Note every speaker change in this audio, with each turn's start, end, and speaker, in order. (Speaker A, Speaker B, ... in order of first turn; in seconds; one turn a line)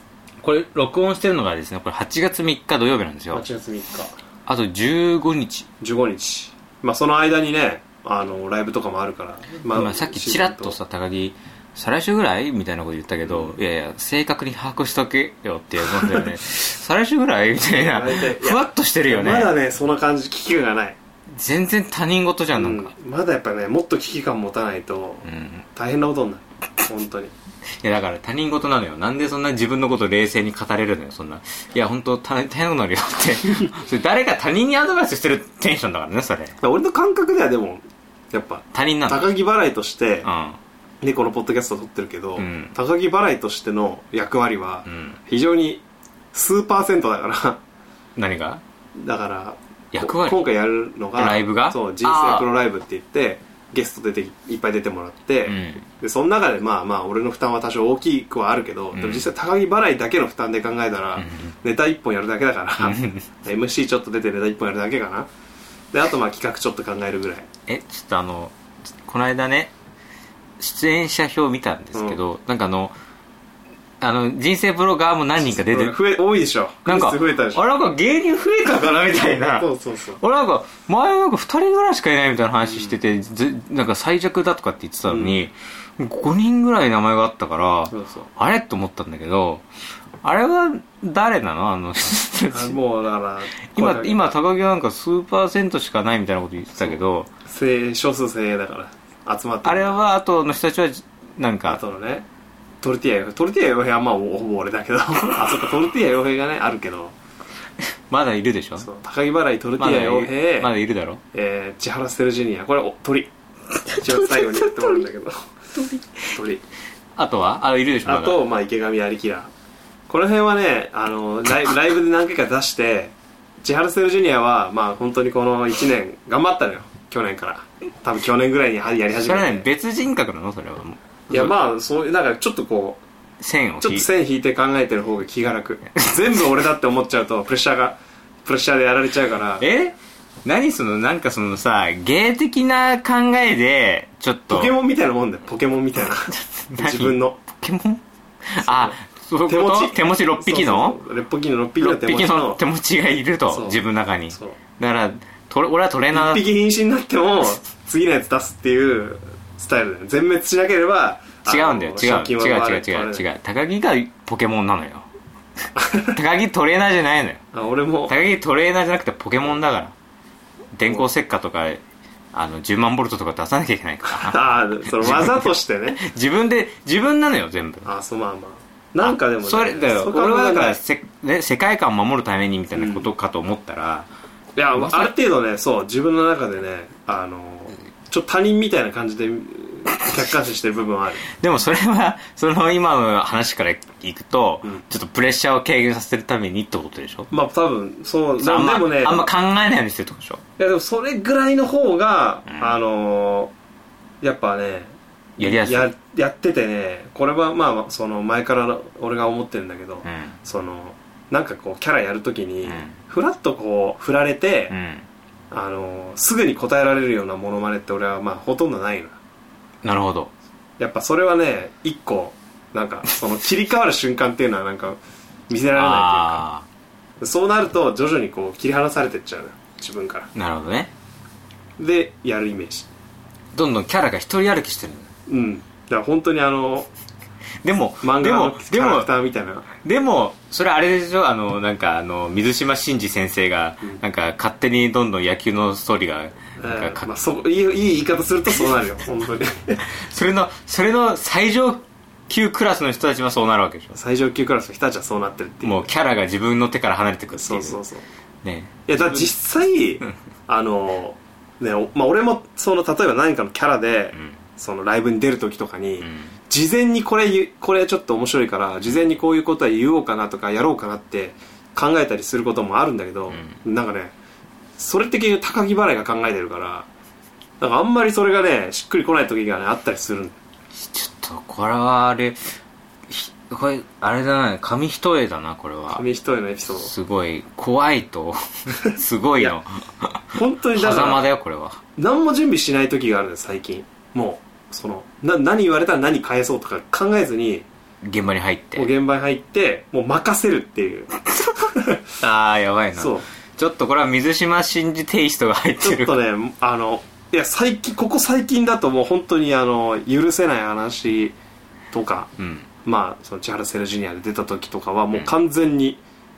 Speaker A: 0.4-3.4
Speaker B: 3.3-4.1
Speaker A: 4.5-5.7
Speaker B: 5.8-10.8
Speaker A: 9.7-19.5
Speaker B: 13.3-13.6
Speaker B: 15.9-16.2
Speaker B: 17.8-21.0
Speaker A: 21.3-22.9
Speaker B: 22.6-27.3
Speaker A: 25.2-25.6
Speaker A: 27.8-36.6
Speaker B: 36.6-40.3
Speaker A: 38.7-39.3
Speaker A: 40.2-40.6
Speaker B: 41.0-45.8
Speaker A: 42.4-42.7
Speaker A: 44.9-45.2
Speaker B: 46.3-47.6
Speaker A: 48.2-48.6
Speaker B: 49.0-65.3
Speaker A: 49.9-50.4
Speaker A: 51.2-52.5
Speaker A: 55.5-55.9
Speaker A: 58.9-59.3
Speaker A: 61.2-61.6
Speaker A: 62.8-63.2
Speaker B: 65.9-67.5
Speaker A: 67.7-69.7
Speaker A: 70.6-72.9
Speaker B: 71.9-72.2
Speaker A: 74.0-76.0
Speaker B: 75.4-77.6
Speaker A: 76.9-79.7
Speaker B: 79.5-80.2
Speaker A: 80.2-89.7
Speaker B: 85.1-85.4
Speaker B: 87.9-88.3
Speaker A: 90.2-92.8
Speaker B: 92.5-94.3
Speaker A: 93.7-97.3
Speaker B: 97.5-100.0
Speaker A: 99.7-101.8
Speaker B: 101.7-102.3
Speaker B: 102.8-107.2
Speaker A: 107.8-108.9
Speaker B: 108.8-110.7
Speaker A: 109.8-111.2
Speaker B: 111.3-113.3
Speaker A: 113.9-115.0
Speaker B: 113.9-115.5
Speaker A: 115.8-116.2
Speaker B: 116.3-116.6
Speaker A: 117.2-118.4
Speaker B: 118.0-119.5
Speaker B: 120.1-129.7
Speaker A: 129.2-131.6
Speaker B: 131.3-133.0
Speaker A: 133.4-134.1
Speaker B: 133.8-139.7
Speaker A: 139.6-144.7
Speaker B: 144.5-147.4
Speaker A: 146.3-151.0
Speaker B: 148.6-152.6
Speaker A: 151.8-156.5
Speaker B: 153.5-154.6
Speaker B: 156.1-163.3
Speaker A: 161.5-165.1
Speaker B: 165.8-166.2
Speaker A: 166.1-167.4
Speaker B: 167.5-168.2
Speaker A: 168.1-169.9
Speaker A: 170.8-177.9
Speaker B: 174.1-176.0
Speaker B: 177.8-180.8
Speaker A: 179.0-184.1
Speaker B: 182.8-183.1
Speaker B: 184.6-191.3
Speaker A: 184.8-185.1
Speaker A: 191.3-197.3
Speaker B: 197.3-199.3
Speaker A: 198.4-200.4
Speaker B: 200.6-203.5
Speaker A: 202.5-202.8
Speaker B: 204.2-214.7
Speaker A: 205.4-205.9
Speaker A: 210.1-210.4
Speaker A: 212.7-212.9
Speaker A: 214.7-215.1
Speaker B: 215.5-219.2
Speaker A: 219.8-220.3
Speaker B: 220.8-226.4
Speaker A: 225.7-226.7
Speaker B: 227.2-230.3
Speaker A: 230.3-230.9
Speaker B: 231.8-232.9
Speaker A: 233.5-235.1
Speaker B: 235.3-236.9
Speaker A: 237.6-239.1
Speaker B: 238.0-239.7
Speaker A: 239.7-247.1
Speaker B: 246.6-249.8
Speaker A: 249.8-254.0
Speaker B: 253.9-255.9
Speaker A: 255.6-257.8
Speaker B: 257.4-258.0
Speaker A: 258.4-259.3
Speaker B: 258.9-274.1
Speaker A: 266.0-266.3
Speaker A: 273.3-273.6
Speaker B: 274.8-276.9
Speaker B: 277.6-280.4
Speaker A: 280.7-282.5
Speaker A: 283.1-286.0
Speaker B: 285.9-286.9
Speaker A: 286.7-291.8
Speaker B: 288.9-289.6
Speaker B: 290.3-291.3
Speaker B: 292.0-297.7
Speaker A: 298.0-298.9
Speaker B: 298.8-302.0
Speaker A: 301.4-301.7
Speaker A: 302.2-306.1
Speaker B: 302.9-303.3
Speaker B: 305.8-311.4
Speaker B: 311.9-312.3
Speaker A: 312.4-312.7
Speaker B: 312.9-316.0